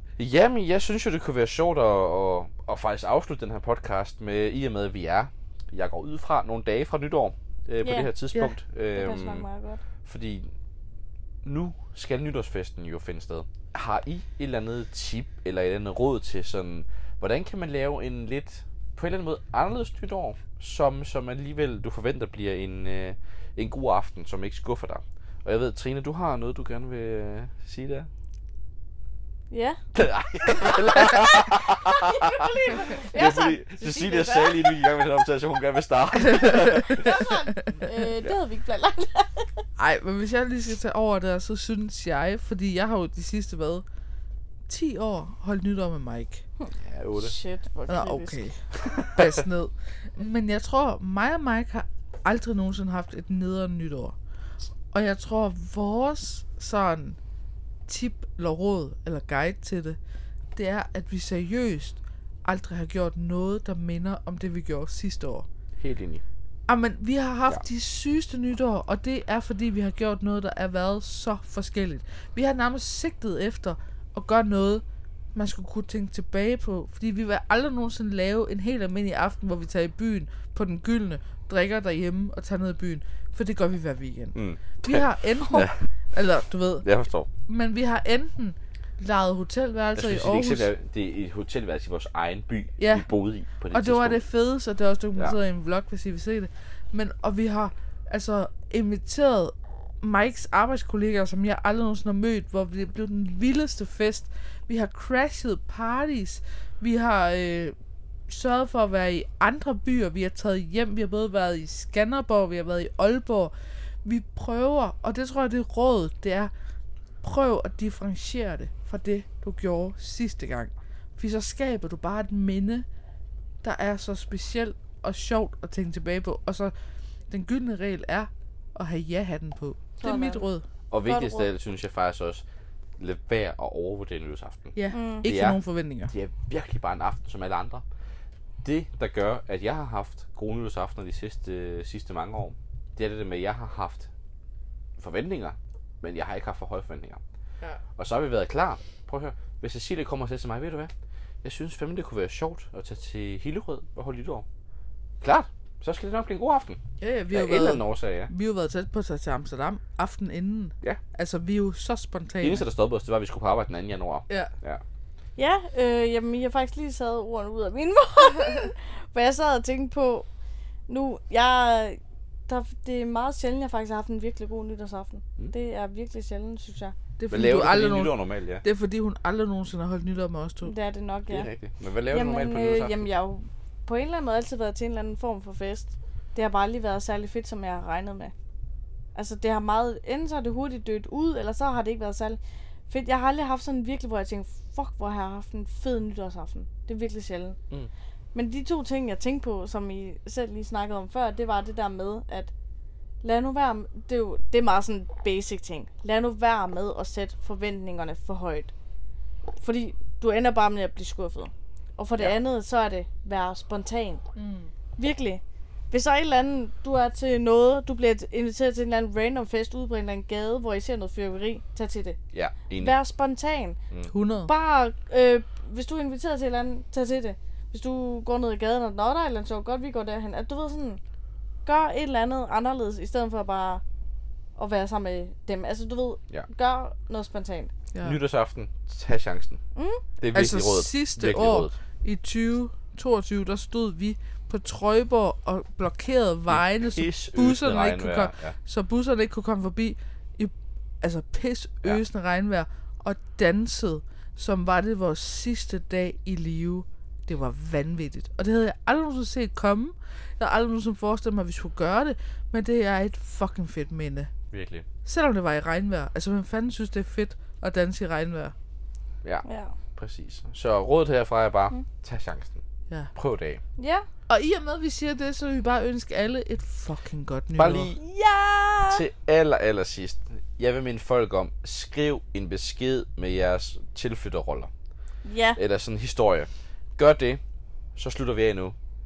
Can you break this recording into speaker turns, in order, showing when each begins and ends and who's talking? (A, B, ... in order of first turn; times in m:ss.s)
0:00.2-0:09.4 A
0:07.8-0:08.1 B
0:08.9-0:09.8 B
0:10.0-0:10.5 A
0:11.4-0:28.1 A
0:29.5-0:29.8 B
0:29.9-0:37.2 A
0:31.8-0:34.9 B
0:36.3-0:36.8 C
0:36.7-0:39.6 B
0:39.8-0:43.8 C
0:44.7-0:46.4 C
0:46.6-0:48.4 B
0:46.8-0:47.3 A
0:47.9-0:54.2 C
0:49.2-0:49.4 A
0:54.9-0:57.2 C
0:57.9-1:00.0 C
1:00.6-1:05.5 C
1:05.8-1:06.2 A
1:06.7-1:14.8 C
1:15.4-1:26.9 C
1:24.4-1:25.8 A
1:26.8-1:27.3 A
1:27.5-1:30.7 C
1:30.0-1:34.2 A
1:32.8-1:33.1 C
1:33.7-1:47.8 C
1:48.3-1:53.5 C
1:54.0-1:56.5 C
1:57.2-2:02.9 C
2:03.6-2:06.7 C
2:07.3-2:10.6 C
2:10.0-2:10.4 B
2:10.9-2:12.4 A
2:11.0-2:11.5 B
2:13.0-2:17.8 A
2:14.8-2:16.1 C
2:14.9-2:15.3 B
2:18.6-2:24.1 A
2:25.0-2:27.2 A
2:28.0-2:30.9 A
2:31.4-2:34.5 A
2:35.2-2:36.8 A
2:37.0-2:42.6 C
2:37.3-2:38.3 A
2:42.4-2:44.8 A
2:45.4-2:50.3 B
2:50.9-2:57.0 B
2:57.2-3:00.7 C
2:57.3-2:58.6 A
3:00.6-3:01.5 B
3:01.3-3:03.1 A
3:02.1-3:08.3 B
3:09.2-3:17.6 B
3:18.3-3:22.5 B
3:23.2-3:28.7 B
3:29.6-3:34.2 B
3:34.4-3:34.7 C
3:35.0-3:42.2 B
3:42.3-3:42.9 A
3:42.8-3:43.8 B
3:44.1-3:44.5 C
3:44.5-3:51.0 B
3:51.6-3:53.8 B
3:54.6-3:57.7 B
3:57.9-3:58.2 C
3:58.0-3:59.6 A
3:59.8-4:00.0 B
4:00.2-4:01.7 A
4:00.3-4:24.3 C
4:06.5-4:08.6 A
4:24.5-4:24.9 A
4:25.0-4:28.5 C
4:29.4-4:29.8 B
4:30.0-4:32.6 A
4:33.2-4:33.6 A
4:33.8-4:34.1 B
4:34.3-4:37.9 C
4:37.6-4:38.0 A
4:38.0-4:39.0 B
4:38.9-4:44.7 A
4:45.2-4:45.6 B
4:45.6-4:47.4 A
4:48.0-4:48.8 A